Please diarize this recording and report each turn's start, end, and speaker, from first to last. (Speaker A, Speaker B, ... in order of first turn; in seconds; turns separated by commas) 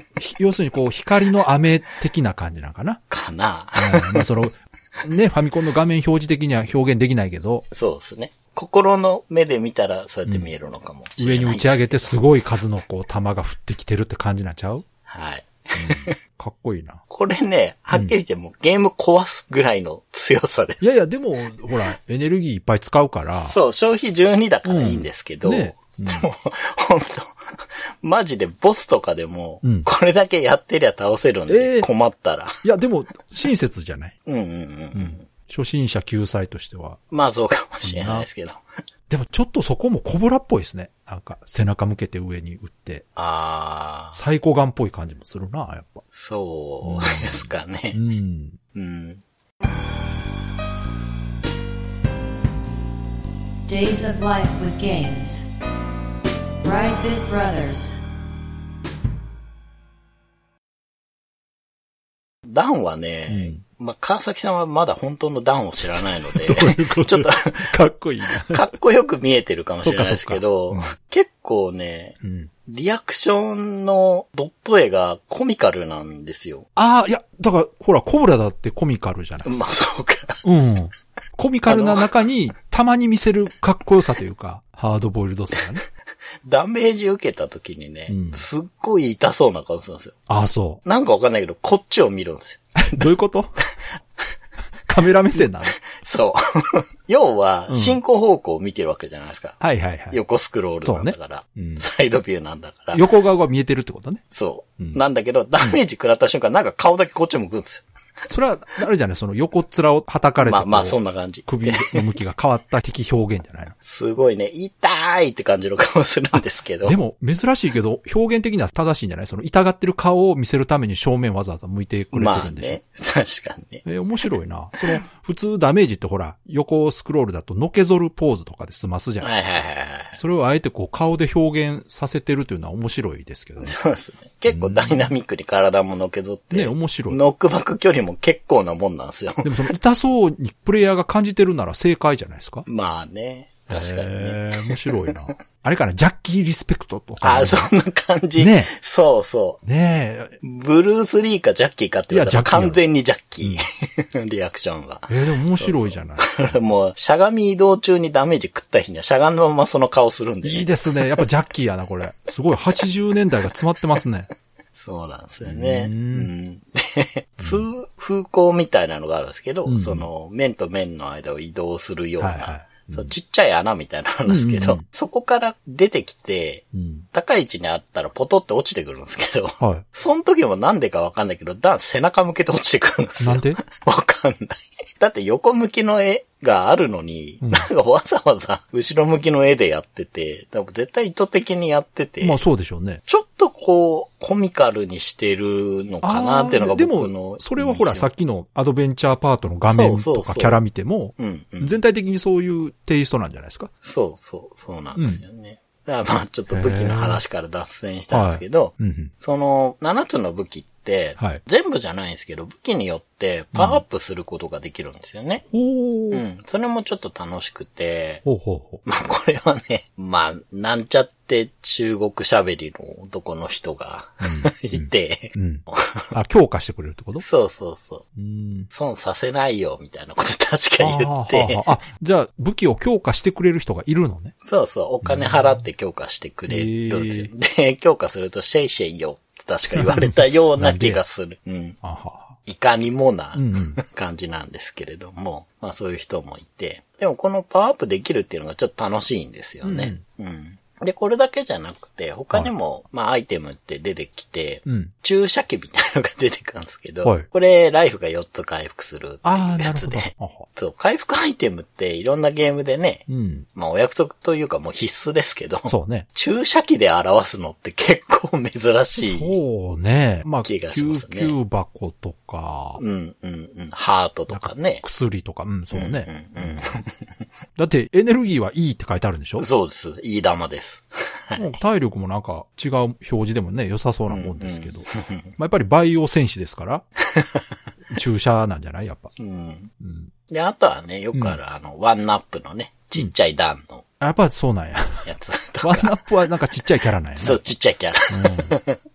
Speaker A: 0.2-3.0, Speaker B: 3.1-4.3, Speaker A: 3.8-7.7, Speaker B: 7.7-12.2, Speaker A: 11.2-14.9, Speaker B: 15.1-16.2, Speaker A: 15.8-17.0, Speaker B: 17.1-20.8, Speaker A: 20.8-23.6, Speaker B: 23.5-32.6, Speaker A: 24.7-26.3, Speaker A: 29.6-29.9, Speaker A: 31.5-31.9, Speaker A: 32.6-34.1, Speaker B: 34.2-35.3, Speaker A: 34.9-37.0, Speaker B: 37.1-38.6, Speaker A: 37.8-38.3, Speaker A: 39.1-43.1, Speaker B: 43.2-44.2, Speaker A: 44.1-46.0, Speaker B: 46.1-48.0, Speaker A: 46.8-48.6, Speaker B: 48.7-49.2, Speaker C: 53.7-55.5, Speaker C: 56.6-58.0, Speaker B: 62.5-67.8, Speaker A: 63.3-63.6, Speaker A: 65.9-68.7, Speaker B: 68.4-76.7, Speaker A: 69.8-70.9, Speaker A: 72.2-72.5, Speaker A: 76.8-79.6, Speaker B: 79.4-80.4, Speaker A: 80.4-85.8, Speaker B: 81.7-82.1, Speaker B: 86.5-90.2, Speaker A: 88.1-88.4, Speaker A: 90.3-90.8, Speaker B: 90.8-93.1, Speaker A: 92.8-93.5, Speaker A: 94.9-95.8, Speaker B: 95.4-99.6, Speaker A: 97.7-98.0, Speaker A: 99.6-100.2, Speaker B: 100.1-103.1, Speaker A: 100.8-101.8, Speaker A: 102.9-104.2, Speaker B: 104.3-107.8, Speaker A: 108.3-113.8, Speaker B: 110.4-112.1, Speaker B: 113.8-117.0, Speaker A: 116.3-122.8, Speaker B: 122.1-123.9, Speaker A: 123.8-129.6, Speaker B: 129.2-130.2, Speaker A: 130.1-133.8, Speaker B: 133.6-139.7, Speaker A: 134.5-135.1, Speaker A: 136.5-137.2, Speaker A: 139.4-142.7, Speaker B: 142.7-145.3, Speaker A: 143.7-147.7, Speaker B: 147.2-149.6, Speaker A: 148.4-148.7, Speaker A: 149.6-150.4, Speaker B: 150.4-161.3, Speaker A: 152.1-152.8, Speaker A: 155.1-156.5, Speaker A: 160.4-164.3, Speaker B: 164.8-192.4, Speaker A: 165.4-166.3, Speaker A: 167.4-167.7, Speaker A: 169.7-170.1, Speaker A: 172.2-173.1, Speaker A: 174.3-174.8, Speaker A: 176.7-177.1, Speaker A: 179.6-179.8, Speaker A: 183.2-183.6, Speaker A: 187.4-187.7, Speaker A: 192.2-193.0, Speaker B: 193.1-198.1, Speaker A: 196.0-203.7, Speaker B: 199.7-200.6, Speaker B: 201.2-201.8, Speaker B: 203.8-215.5, Speaker A: 205.0-205.2, Speaker A: 206.5-207.2, Speaker A: 208.1-209.1, Speaker A: 213.5-213.8, Speaker A: 215.5-216.2, Speaker B: 216.1-218.2, Speaker A: 218.2-218.8, Speaker B: 218.8-226.1, Speaker A: 224.2-227.2, Speaker B: 227.2-228.1, Speaker A: 228.2-228.7, Speaker B: 228.7-231.7, Speaker A: 230.8-234.3, Speaker B: 234.4-241.8, Speaker A: 235.0-235.6, Speaker A: 236.5-237.3, Speaker A: 239.8-241.0, Speaker A: 241.8-242.4, Speaker B: 242.4-269.4, Speaker A: 243.3-243.8, Speaker A: 249.6-250.0, Speaker A: 254.7-254.9, Speaker A: 259.2-260.5, Speaker A: 263.1-263.5, Speaker A: 265.7-266.1, Speaker A: 269.0-272.8, Speaker B: 270.4-271.4, Speaker B: 272.8-274.8, Speaker A: 274.3-276.6, Speaker B: 275.7-277.1, Speaker A: 277.6-279.5, Speaker B: 279.4-281.6, Speaker A: 281.4-286.9, Speaker B: 284.1-285.4, Speaker B: 287.1-287.4, Speaker A: 287.9-289.1, Speaker B: 289.2-289.7, Speaker A: 289.8-290.1, Speaker B: 290.3-293.9, Speaker A: 294.0-295.1, Speaker B: 295.0-296.1, Speaker A: 295.6-297.4, Speaker B: 297.2-298.8, Speaker A: 298.1-298.6